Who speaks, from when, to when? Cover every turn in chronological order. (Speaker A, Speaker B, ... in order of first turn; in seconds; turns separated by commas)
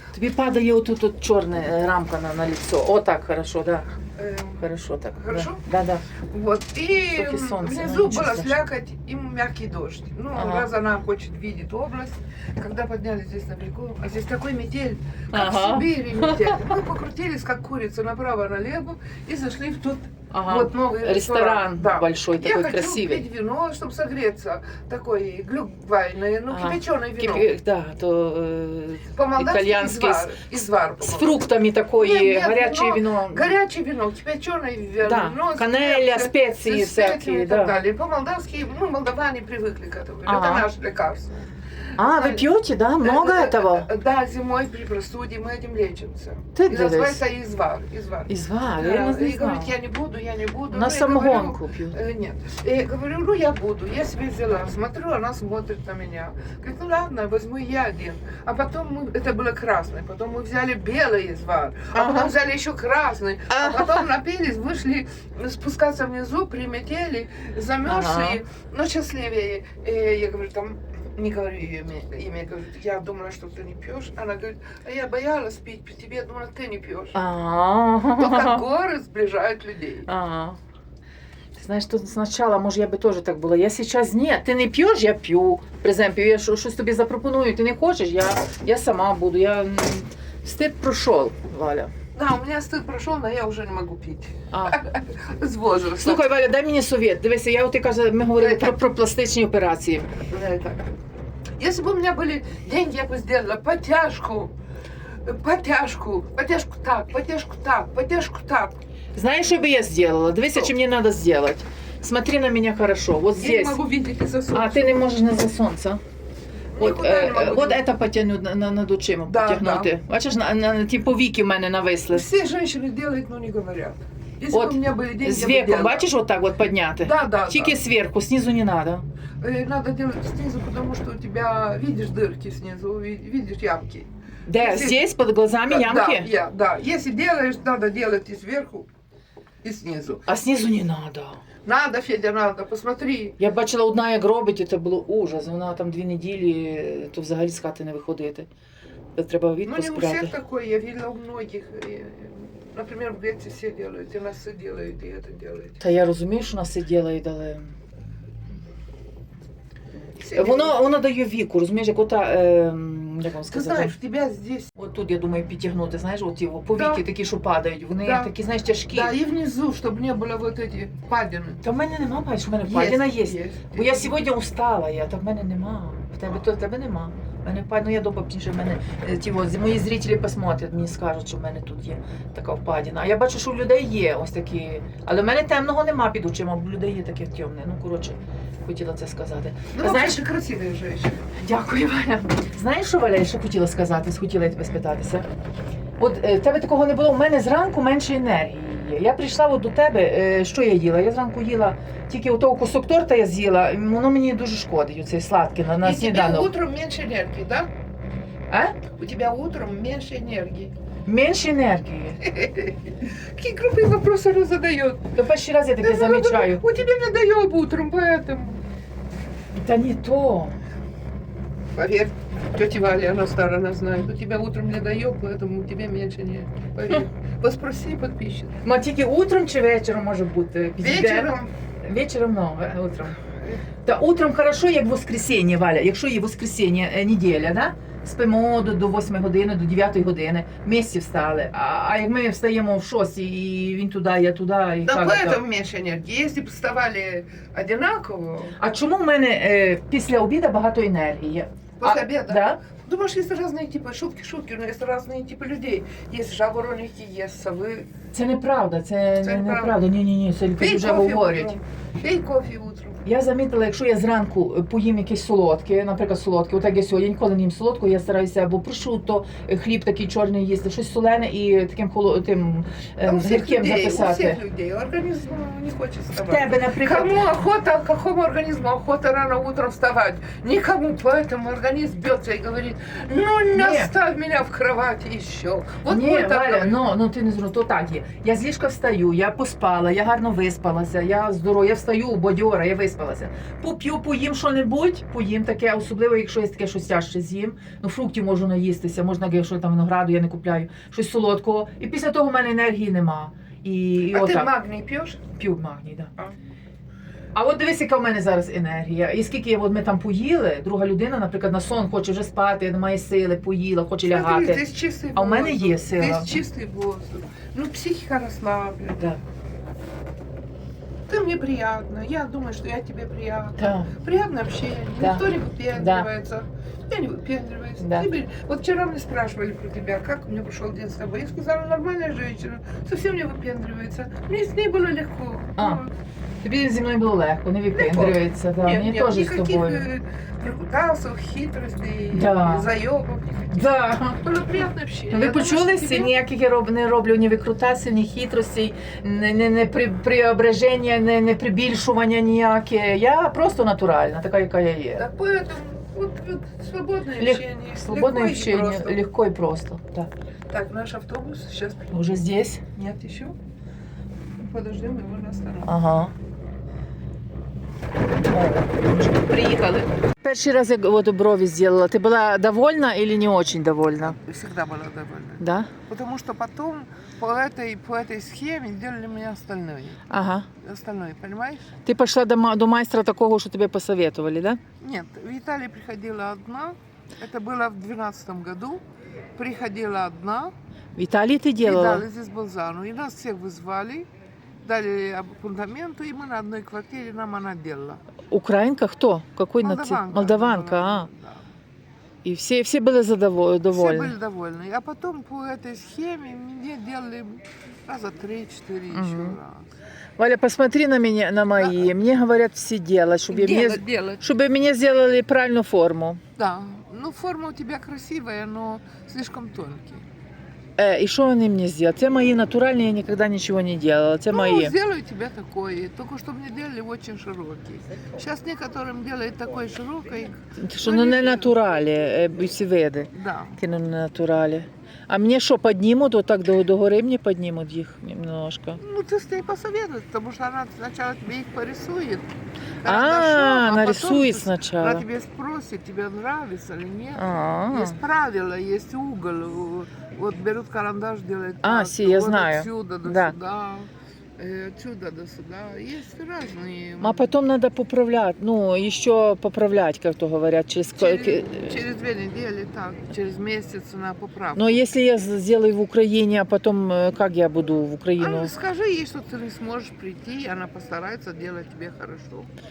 Speaker A: 0.1-3.9, Speaker B: 4.2-4.6, Speaker A: 4.6-6.0, Speaker B: 5.2-5.6, Speaker B: 6.2-27.5, Speaker A: 7.1-8.7, Speaker A: 10.4-10.7, Speaker A: 15.3-16.7, Speaker A: 20.3-23.2, Speaker A: 26.5-30.4, Speaker B: 29.1-42.5, Speaker A: 31.0-33.5, Speaker A: 35.0-37.7, Speaker A: 40.3-40.7, Speaker A: 42.0-43.9, Speaker B: 43.0-77.2, Speaker A: 46.5-47.2, Speaker A: 48.3-49.7, Speaker A: 50.7-52.0, Speaker A: 61.9-62.3, Speaker A: 63.5-64.0, Speaker A: 67.8-68.4, Speaker A: 77.1-78.6, Speaker B: 78.2-80.1, Speaker A: 80.1-80.6, Speaker A: 81.6-91.9, Speaker B: 92.1-96.3, Speaker A: 94.5-94.8, Speaker A: 96.0-100.1, Speaker B: 98.4-98.8, Speaker B: 100.3-100.9, Speaker B: 101.6-104.5, Speaker B: 105.1-108.8, Speaker A: 109.1-113.8, Speaker B: 113.4-115.1, Speaker A: 114.5-116.0, Speaker B: 116.8-117.8, Speaker A: 116.8-122.3, Speaker B: 119.3-119.9, Speaker B: 122.1-126.0, Speaker A: 124.5-129.0, Speaker B: 127.0-127.8, Speaker B: 129.4-135.0, Speaker A: 134.5-136.3, Speaker B: 135.7-138.9, Speaker B: 139.6-140.3, Speaker A: 140.3-141.4, Speaker B: 141.7-143.4, Speaker A: 143.4-148.5, Speaker A: 149.2-150.3, Speaker B: 149.7-155.8, Speaker A: 155.8-157.7, Speaker B: 160.2-160.8, Speaker A: 160.3-163.9, Speaker B: 163.5-164.7, Speaker A: 164.8-169.2, Speaker B: 166.8-167.0, Speaker B: 168.0-168.3, Speaker B: 168.9-171.6, Speaker A: 171.6-190.2, Speaker B: 172.7-174.1, Speaker B: 189.7-191.3, Speaker A: 191.3-195.2, Speaker A: 196.0-206.5, Speaker B: 205.8-207.7, Speaker A: 208.5-208.8, Speaker B: 208.9-210.7, Speaker A: 211.1-212.2, Speaker B: 212.2-215.1, Speaker A: 215.2-216.6, Speaker B: 215.8-218.6, Speaker A: 219.5-220.5, Speaker B: 221.8-228.6, Speaker A: 228.6-233.2, Speaker B: 230.8-231.5, Speaker A: 233.8-245.4, Speaker B: 244.8-248.6, Speaker A: 248.6-252.6, Speaker B: 251.8-257.9, Speaker A: 258.1-261.6, Speaker B: 259.2-259.8, Speaker B: 260.6-263.0, Speaker A: 263.0-274.4, Speaker B: 273.0-286.8, Speaker A: 276.1-277.2, Speaker A: 283.5-283.9, Speaker A: 285.9-304.5, Speaker B: 304.1-305.2, Speaker A: 305.3-306.1, Speaker A: 307.4-316.4, Speaker B: 314.0-319.0, Speaker B: 321.1-335.9, Speaker A: 323.6-323.9, Speaker A: 325.0-326.1, Speaker A: 327.8-328.1, Speaker A: 335.6-335.8, Speaker A: 336.4-339.9, Speaker B: 337.7-343.5, Speaker A: 342.1-342.7, Speaker A: 343.5-344.2, Speaker B: 344.2-346.2, Speaker A: 345.1-355.1, Speaker B: 354.9-359.0, Speaker A: 357.1-360.1, Speaker B: 360.5-362.1, Speaker A: 361.9-362.6, Speaker B: 362.7-363.4, Speaker B: 364.4-365.8, Speaker A: 365.6-366.1, Speaker A: 368.3-374.2, Speaker B: 374.1-380.0, Speaker A: 375.4-375.7, Speaker A: 380.1-380.5, Speaker B: 380.6-381.7, Speaker A: 381.9-384.6, Speaker B: 384.8-388.8, Speaker B: 389.4-390.6, Speaker A: 390.9-392.1, Speaker B: 391.6-394.1, Speaker B: 394.6-398.0, Speaker A: 398.3-401.1, Speaker B: 399.6-401.4, Speaker A: 402.2-404.1, Speaker B: 403.7-409.7, Speaker A: 408.9-409.4, Speaker A: 410.2-416.2, Speaker B: 413.3-414.2, Speaker B: 416.4-420.1, Speaker A: 420.8-424.7, Speaker B: 424.3-431.5, Speaker A: 430.6-438.8, Speaker B: 433.1-433.6, Speaker B: 438.8-442.3, Speaker B: 442.8-457.3, Speaker A: 442.9-445.1, Speaker A: 447.1-448.0, Speaker A: 451.6-453.4, Speaker A: 457.0-461.8, Speaker B: 460.9-464.9, Speaker A: 464.6-468.6, Speaker B: 468.2-472.5